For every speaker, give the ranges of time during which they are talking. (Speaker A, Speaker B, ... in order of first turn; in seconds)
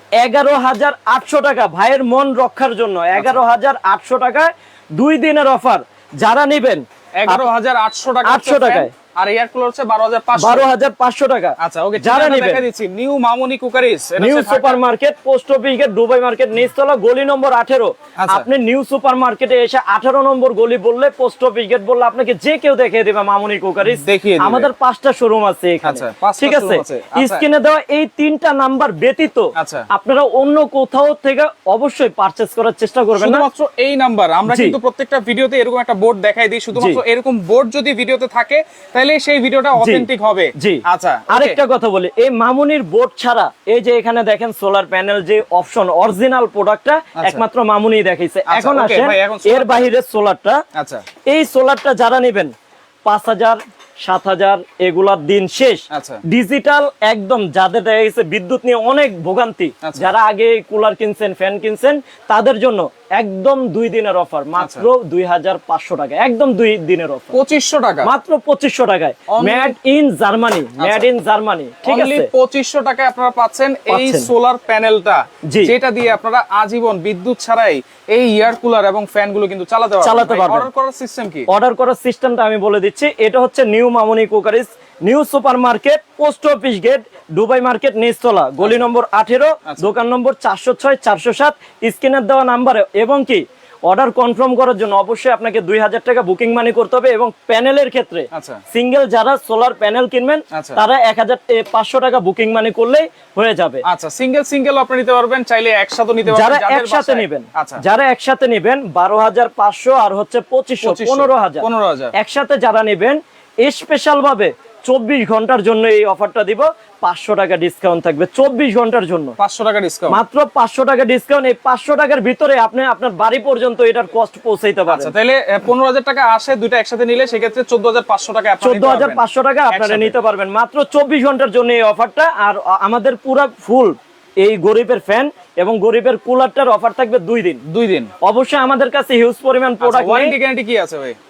Speaker A: 0.2-7.5, 8.2-8.9, 10.3-12.6, 14.2-33.5, 34.5-34.8, 36.7-37.0, 39.8-50.6, 51.3-52.5, 53.0-67.3, 68.0-72.3, 73.9-74.3, 75.5-75.7, 80.0-80.7, 81.5-103.8, 106.3-119.3, 120.1-125.1, 128.6-137.6, 138.2-140.3
Speaker B: 3.1-3.4, 7.2-10.7, 11.6-14.8, 18.2-18.4, 24.0-24.7, 25.8-27.4, 29.6-29.9, 33.1-41.6, 47.2-47.4, 48.5-49.9, 50.7-51.0, 55.9-56.2, 59.8-60.1, 64.6-64.8, 67.3-68.1, 69.3-69.7, 70.8-71.1, 71.8-81.5, 98.3-98.6, 100.5-100.8, 103.8-107.8, 110.8-112.1, 119.4-120.2, 124.9-130.2, 137.7-138.1, 139.8-141.2